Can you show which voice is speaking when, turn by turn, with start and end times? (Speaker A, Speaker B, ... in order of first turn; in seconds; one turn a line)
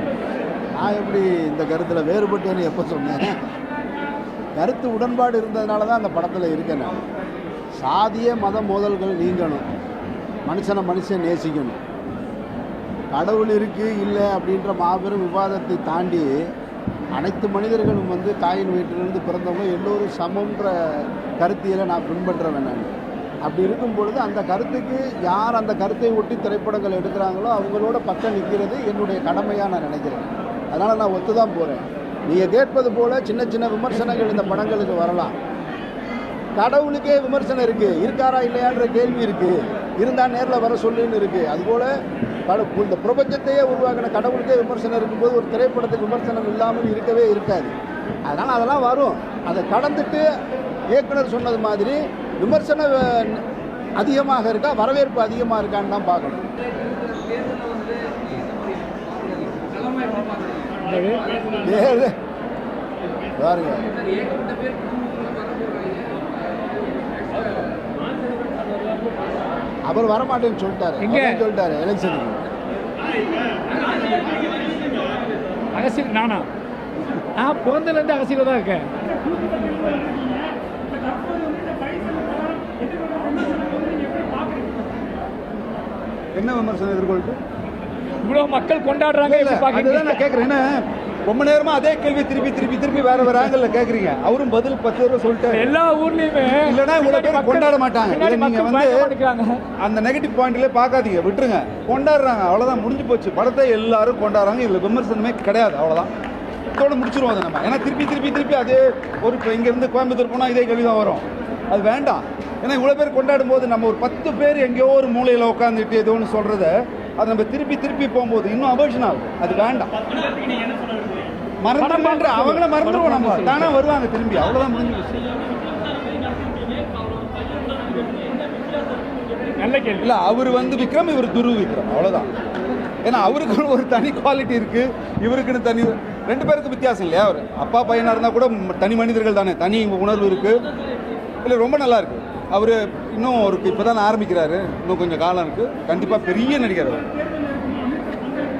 Speaker A: 0.8-3.4
Speaker A: 4.5-7.0
Speaker A: 7.8-9.6
Speaker A: 10.4-11.8
Speaker A: 13.1-16.5
Speaker A: 17.1-22.9
Speaker A: 23.4-35.3
Speaker A: 36.6-41.9
Speaker A: 42.5-47.7
Speaker A: 48.2-50.3
Speaker A: 50.9-53.4
Speaker A: 54.0-56.4
Speaker B: 57.0-61.2
Speaker A: 61.6-62.1
Speaker A: 63.4-64.0
Speaker B: 64.3-66.0
Speaker A: 69.8-72.4
Speaker B: 71.1-71.3
Speaker B: 75.7-76.5
Speaker B: 77.4-78.8
Speaker C: 86.3-87.4
Speaker B: 88.2-90.2
Speaker C: 89.2-95.7
Speaker B: 95.6-99.6
Speaker C: 96.7-99.1
Speaker C: 99.8-106.1
Speaker C: 106.8-119.9
Speaker C: 121.6-125.3
Speaker B: 121.8-123.7
Speaker B: 129.6-130.1
Speaker C: 130.0-132.3
Speaker C: 133.0-140.6
Speaker C: 141.4-147.1